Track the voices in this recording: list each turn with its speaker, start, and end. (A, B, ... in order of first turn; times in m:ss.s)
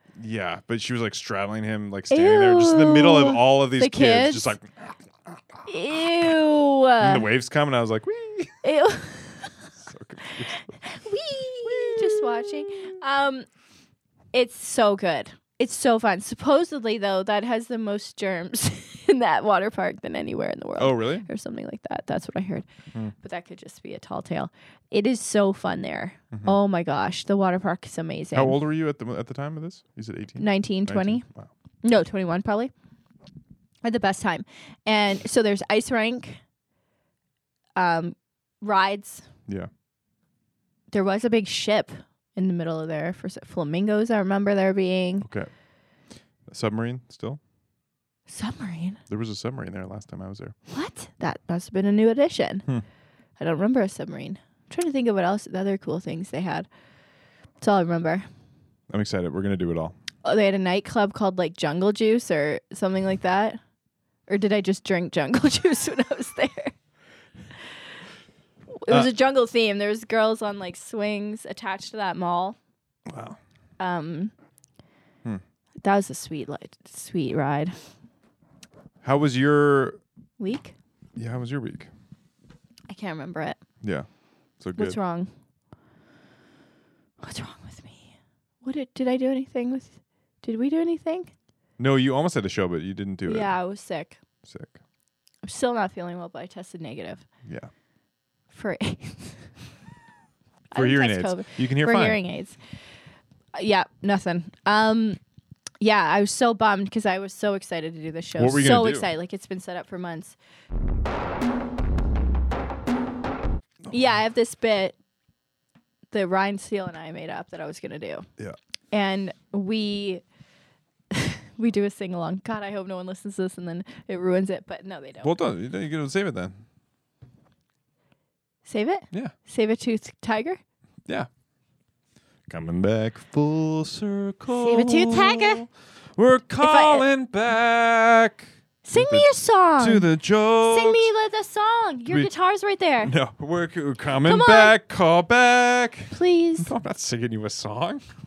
0:00.2-0:05.4 A
0:02.1-0:04.5 B
0:05.7-0:07.3 B
0:07.0-0:08.6 A
0:08.6-0:09.5 B
0:09.8-0:10.8 A
0:10.8-0:13.5 B
0:11.6-0:12.6 A
0:14.3-0:22.7 B
0:20.8-0:21.3 A
0:23.2-0:28.6 B
0:28.3-0:31.5 A
0:30.4-0:31.2 B
0:31.8-0:32.7 B
0:33.8-0:36.4 B
0:37.8-0:39.3 B
0:40.9-0:45.3 B
0:45.2-0:45.5 A
0:46.5-0:47.4 A
0:48.3-0:49.0 B
0:49.1-0:50.6 A
0:50.7-0:52.6 B
0:53.4-0:56.7 B
0:57.6-0:58.3 B
0:58.9-1:00.0 A
1:00.2-1:03.6 B
1:04.3-1:06.7 B
1:08.7-1:12.6 B
1:13.1-1:13.4 A
1:13.8-1:14.3 B
1:15.8-1:17.8 B
1:19.0-1:20.0 A
1:20.4-1:20.7 B
1:21.2-1:21.9 A
1:22.9-1:23.6 B
1:23.8-1:24.1 A
1:24.6-1:25.0 A
1:24.8-1:25.3 B
1:27.2-1:28.1 B
1:28.6-1:31.3 B
1:31.8-1:33.5 A
1:33.3-1:34.2 B
1:34.4-1:34.8 A
1:35.4-1:37.2 B
1:38.5-1:39.5 B
1:40.7-1:42.6 B
1:40.7-1:42.2 A
1:43.5-1:45.2 B
1:45.8-1:50.4 B
1:48.4-1:49.1 A
1:53.9-1:55.0 B
1:56.1-1:58.3 B
1:58.9-2:00.2 B
2:01.1-2:05.3 B
2:05.2-2:06.6 A
2:08.7-2:10.6 B
2:12.5-2:21.1 A
2:14.6-2:15.7 B
2:16.6-2:17.0 B
2:18.8-2:20.1 B
2:20.6-2:23.1 B
2:23.0-2:28.0 A
2:24.3-2:24.8 B
2:26.1-2:26.7 B